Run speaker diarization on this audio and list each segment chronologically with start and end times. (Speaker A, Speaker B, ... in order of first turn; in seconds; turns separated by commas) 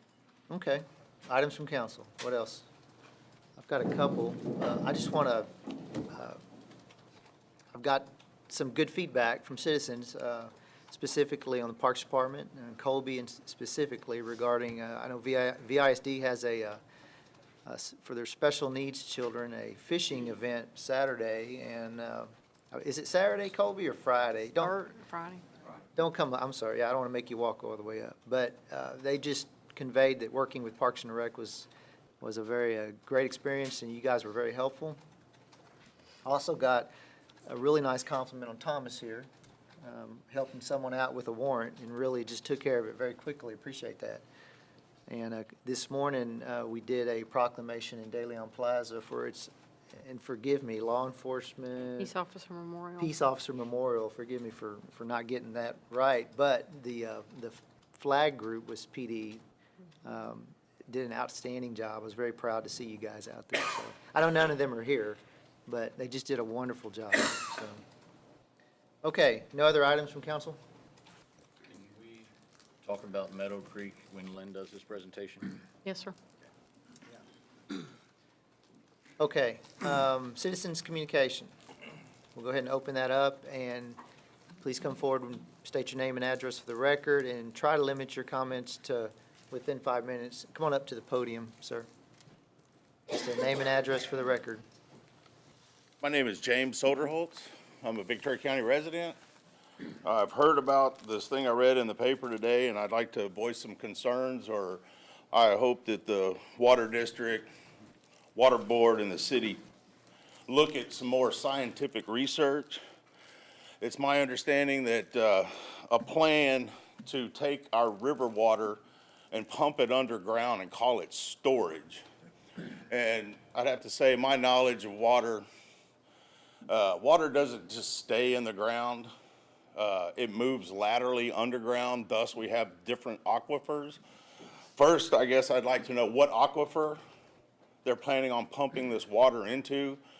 Speaker A: 0.5-2.7, Speaker A: 3.6-5.5, Speaker A: 6.1-6.4, Speaker A: 7.7-16.8, Speaker A: 17.6-24.8, Speaker B: 24.6-25.4, Speaker A: 25.9-31.7, Speaker A: 32.2-35.0, Speaker A: 36.2-36.9, Speaker A: 37.5-39.3, Speaker A: 39.8-44.2, Speaker A: 45.1-52.1, Speaker B: 52.0-53.1, Speaker A: 53.0-59.4, Speaker A: 60.0-67.8, Speaker A: 69.0-70.6, Speaker C: 71.7-72.3, Speaker C: 72.8-75.5, Speaker B: 75.8-76.1, Speaker A: 79.2-81.5, Speaker A: 82.3-84.0, Speaker A: 84.6-91.9, Speaker A: 93.1-94.6, Speaker D: 96.0-99.2, Speaker D: 100.0-107.5, Speaker D: 108.3-109.6, Speaker D: 110.5-112.8, Speaker D: 113.8-122.0, Speaker D: 122.9-125.4, Speaker D: 126.7-129.1, Speaker D: 129.8-134.0, Speaker D: 134.7-137.0, Speaker D: 137.8-140.0